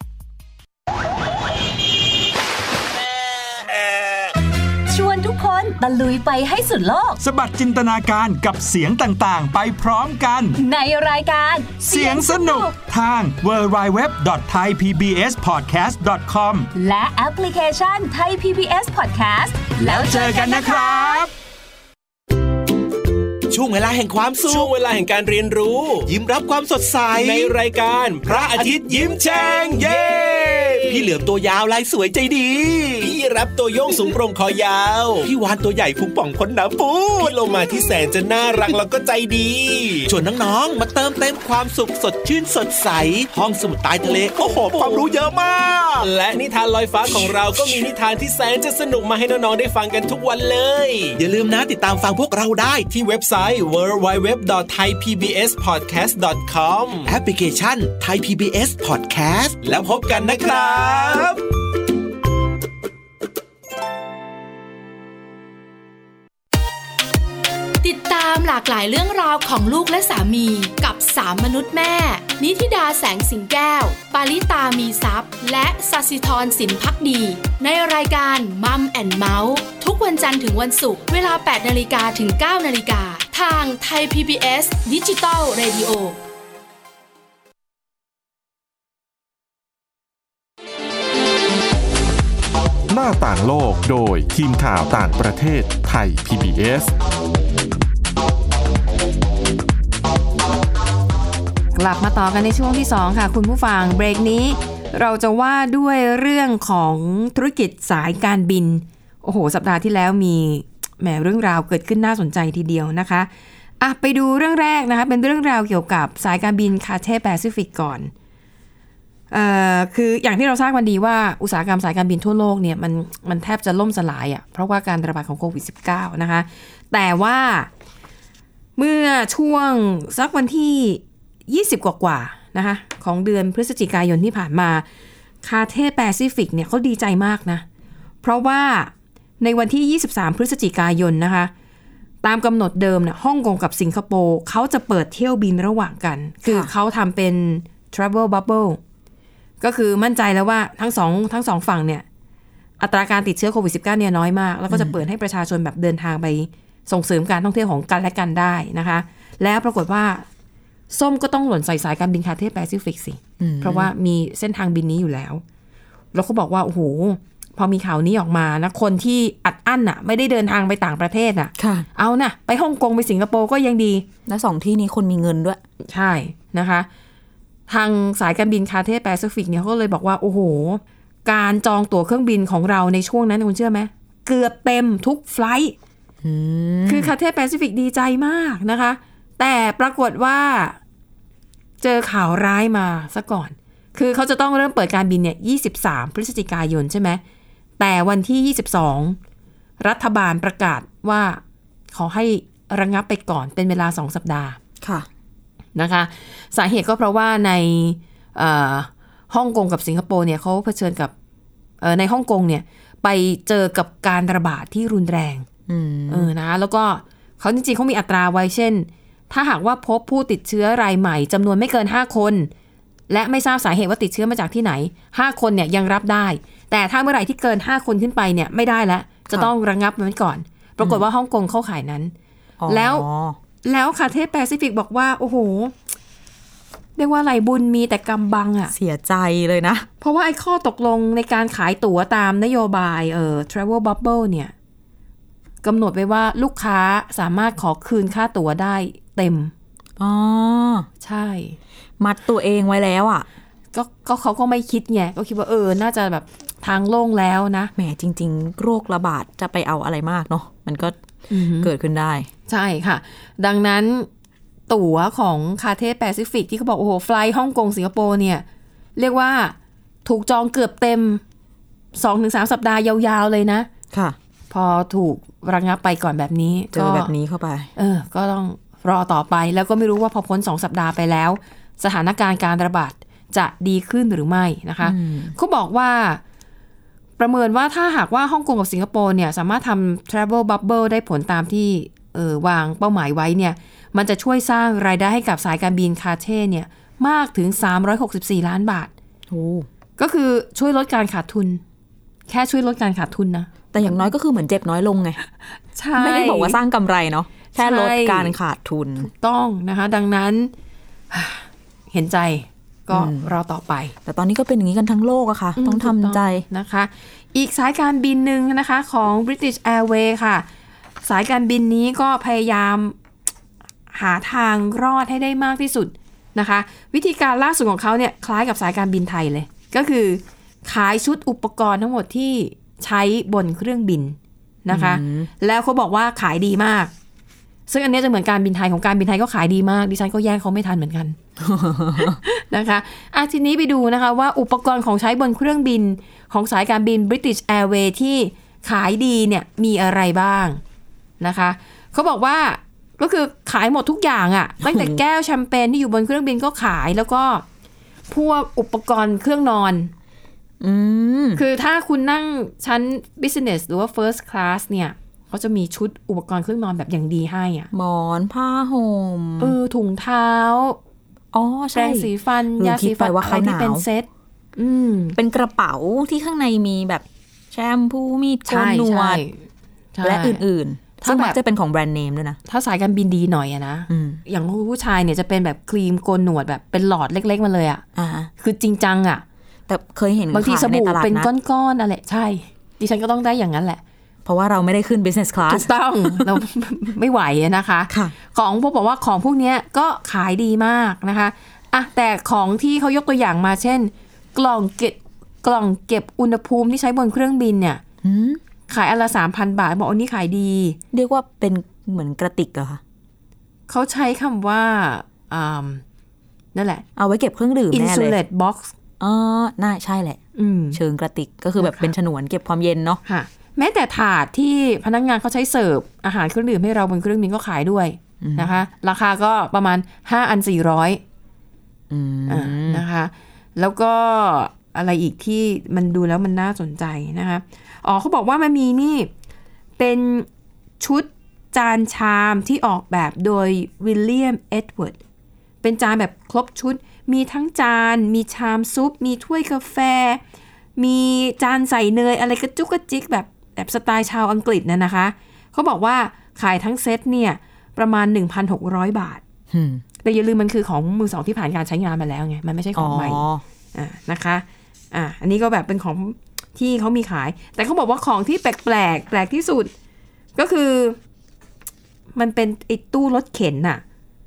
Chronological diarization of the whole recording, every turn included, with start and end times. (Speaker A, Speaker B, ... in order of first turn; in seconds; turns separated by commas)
Speaker A: 4.9-7.2, Speaker B: 7.2-10.6, Speaker A: 10.6-12.8, Speaker B: 11.8-16.7, Speaker A: 16.7-21.2, Speaker B: 19.8-21.3, Speaker C: 23.5-24.7, Speaker D: 24.4-26.1, Speaker C: 26.0-27.5, Speaker D: 27.2-31.1, Speaker C: 28.2-33.1, Speaker D: 33.0-35.3, Speaker C: 35.2-37.3, Speaker D: 37.1-40.1, Speaker C: 40.1-46.0, Speaker D: 44.4-45.1, Speaker D: 46.0-51.2, Speaker C: 51.1-52.9, Speaker D: 52.9-57.1, Speaker C: 57.0-61.2, Speaker D: 59.6-61.4, Speaker E: 67.8-86.2, Speaker F: 92.9-96.9, Speaker G: 101.7-113.3, Speaker G: 113.8-118.1, Speaker G: 119.3-127.7, Speaker G: 128.8-134.8, Speaker G: 135.4-137.6, Speaker G: 138.2-141.5, Speaker G: 142.2-148.8, Speaker H: 146.4-146.7, Speaker G: 149.6-152.0, Speaker G: 152.8-160.2, Speaker H: 154.7-154.9, Speaker G: 160.9-165.4, Speaker H: 163.4-163.9, Speaker G: 166.1-174.0, Speaker H: 171.6-171.9, Speaker H: 174.3-175.6, Speaker G: 175.8-176.9, Speaker G: 177.7-185.7, Speaker H: 186.2-187.1, Speaker G: 186.8-190.8, Speaker G: 191.8-197.2, Speaker G: 197.8-199.2, Speaker G: 199.8-201.4, Speaker G: 201.9-204.6, Speaker H: 204.8-205.1, Speaker G: 205.7-211.1, Speaker G: 211.8-215.4, Speaker H: 215.7-216.3, Speaker G: 216.1-222.5, Speaker G: 223.1-232.1, Speaker H: 232.6-233.4, Speaker G: 232.7-233.0, Speaker G: 233.6-235.7, Speaker G: 237.0-238.7, Speaker H: 238.7-239.9, Speaker G: 240.0-244.5, Speaker G: 245.6-249.5, Speaker H: 250.0-250.9, Speaker G: 251.0-251.6, Speaker H: 252.0-253.3, Speaker G: 253.7-257.7, Speaker H: 257.8-261.0, Speaker G: 261.3-261.7, Speaker H: 261.6-262.3, Speaker G: 262.5-264.1, Speaker G: 264.7-268.4, Speaker G: 269.0-271.2, Speaker G: 271.9-273.7, Speaker H: 273.9-274.2, Speaker G: 274.5-277.1, Speaker H: 276.7-277.7, Speaker G: 277.8-286.2, Speaker H: 284.8-285.3, Speaker G: 287.2-298.9, Speaker H: 299.3-299.7, Speaker G: 300.0-301.6, Speaker G: 302.3-303.5, Speaker H: 303.7-305.2, Speaker G: 305.7-306.6, Speaker H: 305.9-309.1, Speaker G: 307.5-308.3, Speaker G: 309.0-310.5, Speaker G: 311.1-313.9, Speaker H: 312.9-313.3, Speaker H: 314.1-316.4, Speaker G: 315.6-320.4, Speaker G: 321.0-322.9, Speaker G: 323.9-336.9, Speaker H: 334.7-335.3, Speaker G: 337.7-341.1, Speaker H: 341.4-342.2, Speaker G: 342.0-350.6, Speaker G: 351.2-357.4, Speaker H: 354.6-355.0, Speaker G: 358.1-359.9, Speaker H: 360.6-361.4, Speaker G: 361.4-367.7, Speaker H: 367.7-369.6, Speaker G: 369.4-370.8, Speaker H: 371.3-373.8, Speaker G: 371.7-375.1, Speaker H: 375.1-379.2, Speaker G: 378.5-379.4, Speaker G: 379.9-380.4, Speaker H: 380.0-382.4, Speaker G: 381.0-381.4, Speaker G: 382.4-387.8, Speaker H: 383.9-384.2, Speaker H: 387.9-388.3, Speaker G: 388.4-389.2, Speaker H: 389.7-391.3, Speaker G: 390.3-393.8, Speaker H: 394.2-396.4, Speaker G: 395.5-407.8, Speaker H: 397.9-398.1, Speaker H: 408.0-408.4, Speaker G: 408.7-410.8, Speaker H: 410.9-412.8, Speaker G: 413.7-415.8, Speaker G: 416.5-416.8, Speaker H: 416.9-418.2, Speaker G: 417.7-418.7, Speaker H: 419.0-420.2, Speaker G: 420.4-420.8, Speaker H: 420.7-423.0, Speaker G: 421.6-421.9, Speaker G: 423.0-431.0, Speaker H: 428.2-428.5, Speaker H: 431.9-432.8, Speaker G: 432.3-439.1, Speaker G: 439.8-440.3, Speaker G: 440.8-445.0, Speaker G: 445.6-450.2, Speaker G: 450.8-459.2, Speaker H: 459.5-459.8, Speaker G: 460.0-469.7, Speaker H: 462.7-463.4, Speaker G: 470.4-471.0, Speaker G: 472.1-473.8